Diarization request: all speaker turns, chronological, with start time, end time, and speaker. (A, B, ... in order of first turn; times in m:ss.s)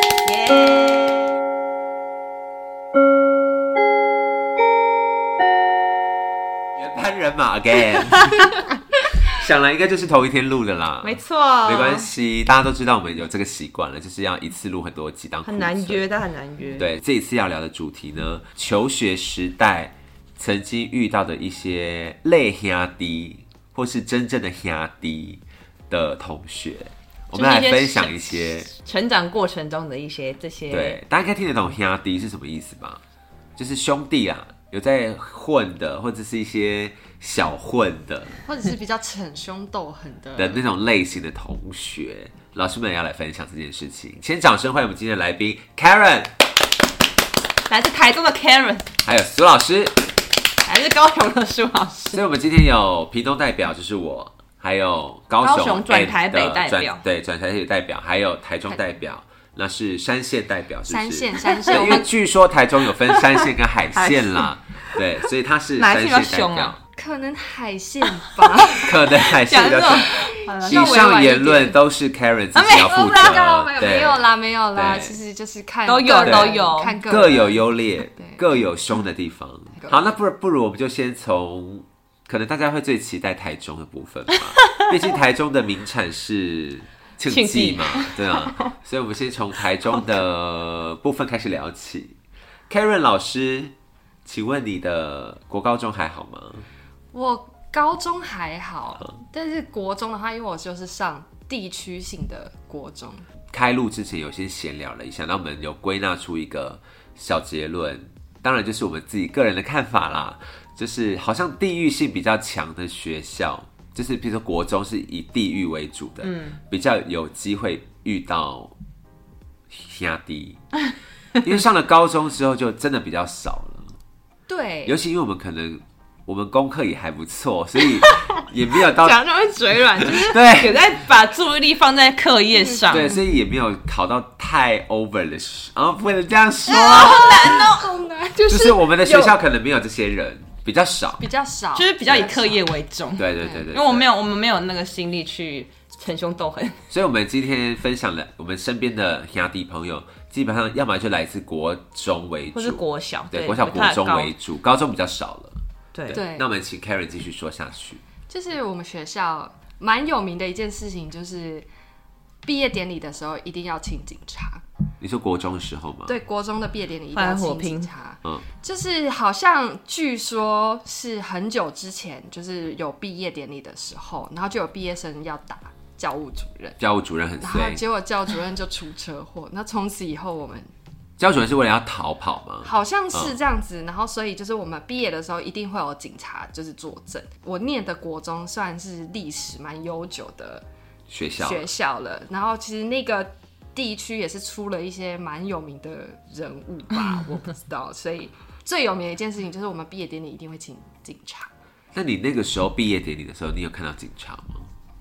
0:00.2-0:01.3 A
0:06.8-0:08.5 B
0:09.3-0:16.1 B
0:11.0-0:12.1 A
0:15.4-0:16.9 A
0:16.8-0:28.7 B
0:27.3-0:31.0 A
0:30.7-0:33.0 B
0:33.6-0:38.4 B
0:38.4-0:40.6 C
0:40.4-0:46.3 B
0:47.7-0:48.9 A
0:49.0-0:50.1 B
0:50.6-0:52.2 A
0:52.1-1:06.8 B
0:55.4-0:57.0 A
1:00.9-1:02.1 C
1:01.7-1:02.0 A
1:03.0-1:03.4 A
1:04.0-1:05.0 A
1:05.8-1:06.8 A
1:07.0-1:09.1 C
1:08.8-1:15.2 B
1:09.2-1:11.3 A
1:10.0-1:11.8 C
1:12.6-1:13.4 A
1:13.0-1:18.5 C
1:15.9-1:17.0 A
1:16.2-1:32.2 B
1:24.6-1:24.9 A
1:27.3-1:28.7 A
1:32.7-1:33.7 B
1:34.2-1:36.7 B
1:37.1-1:43.3 C
1:43.5-1:58.7 B
1:56.2-1:56.6 A
1:59.7-2:00.6 B
2:01.4-2:03.9 B
2:04.5-2:05.0 C
2:04.9-2:09.2 B
2:07.8-2:13.2 A
2:10.0-2:10.9 B
2:12.6-2:13.2 C
2:12.9-2:17.6 B
2:16.7-2:17.9 A
2:16.8-2:19.3 C
2:18.5-2:21.2 B
2:21.2-2:22.6 C
2:21.8-2:26.8 A
2:23.2-2:24.0 B
2:26.9-2:38.0 B
2:32.5-2:34.3 A
2:35.9-2:36.2 A
2:36.1-2:36.5 C
2:38.3-2:41.7 C
2:42.4-2:44.6 C
2:45.0-2:46.2 B
2:46.1-2:56.8 C
2:47.1-2:47.9 A
2:56.8-2:57.8 B
2:57.4-3:00.7 C
3:01.2-3:03.4 B
3:02.6-3:10.7 C
3:11.1-3:11.7 B
3:11.4-3:21.5 C
3:21.9-3:24.7 B